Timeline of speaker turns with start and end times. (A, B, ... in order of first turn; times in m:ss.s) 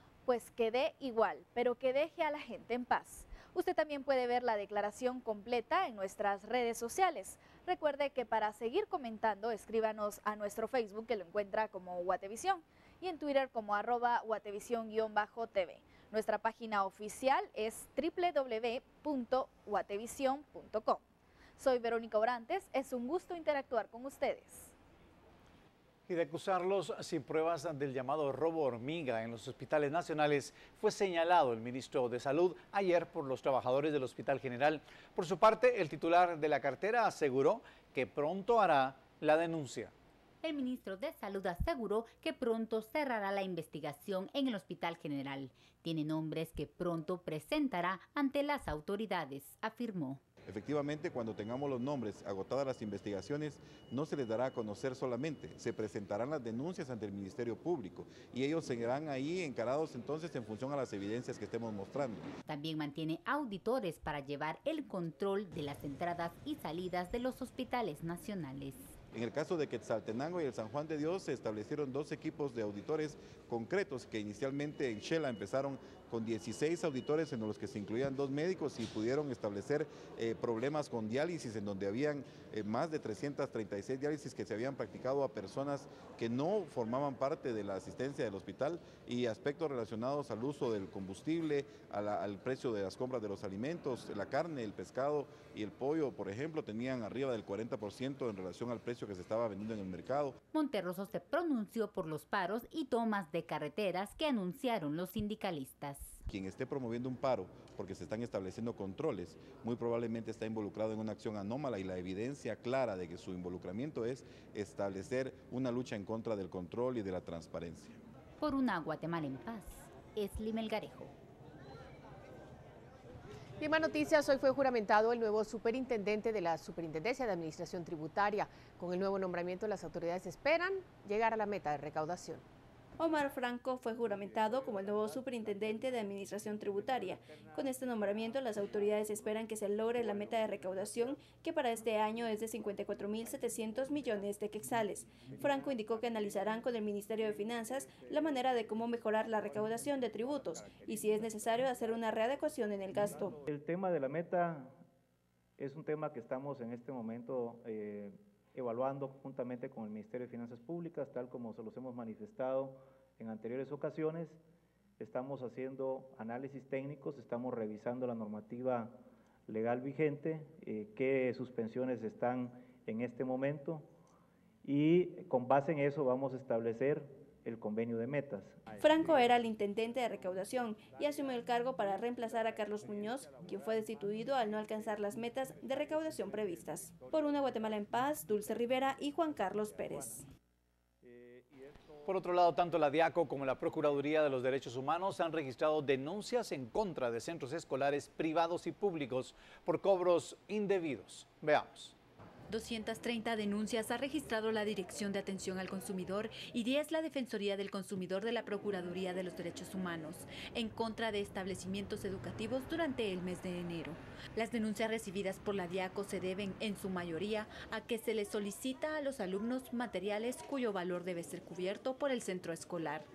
0:00.2-0:21.0 A
0:21.6-0:24.7 A
0:26.1-0:39.9 B
0:40.4-0:50.2 C
0:50.5-1:02.3 D
1:02.5-1:08.9 C
1:09.1-1:40.4 D
1:40.5-1:46.2 C
1:46.3-1:58.0 D
1:58.4-2:01.1 C
2:03.6-2:12.4 E
2:13.0-2:33.4 F
2:33.4-2:34.7 G
2:35.6-2:44.4 G
2:45.0-2:53.9 G
2:54.6-2:58.6 G
2:58.8-3:10.2 F
3:12.1-3:21.9 B
3:22.5-3:43.1 H